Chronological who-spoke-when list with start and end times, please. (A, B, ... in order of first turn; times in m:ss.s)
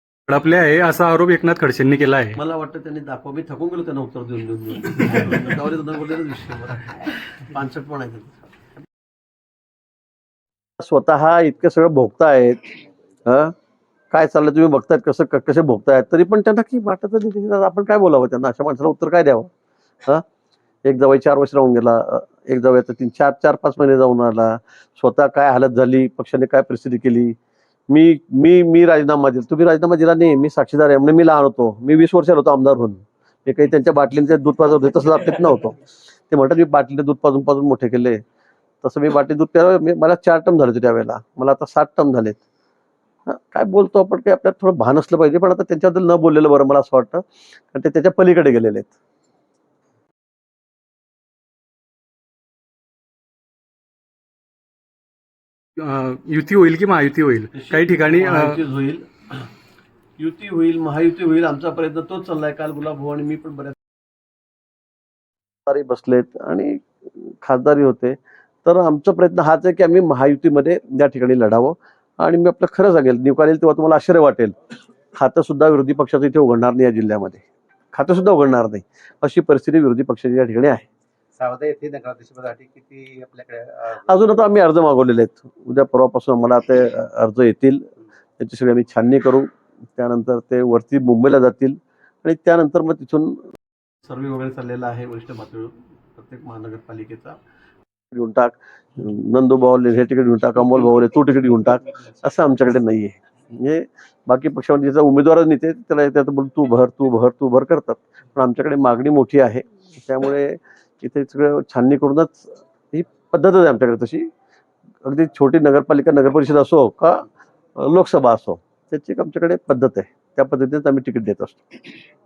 0:00.3-0:02.4 A
0:02.4-0:08.4 B
0:10.8-0:12.7 B
0:13.3-0:13.5 B
0:14.1-0:19.5 B
0:20.8-0:27.4 B
0:27.9-0:38.2 B
0:38.8-0:42.4 B
0:43.3-0:49.0 B
0:55.8-0:58.6 A
0:57.5-0:59.5 B
1:00.2-1:03.8 B
1:05.7-1:14.6 B
1:15.1-1:20.9 B
1:21.4-1:24.0 C
1:23.9-1:33.5 B
1:34.0-1:37.4 B
1:38.1-1:54.3 B
1:55.0-2:01.9 B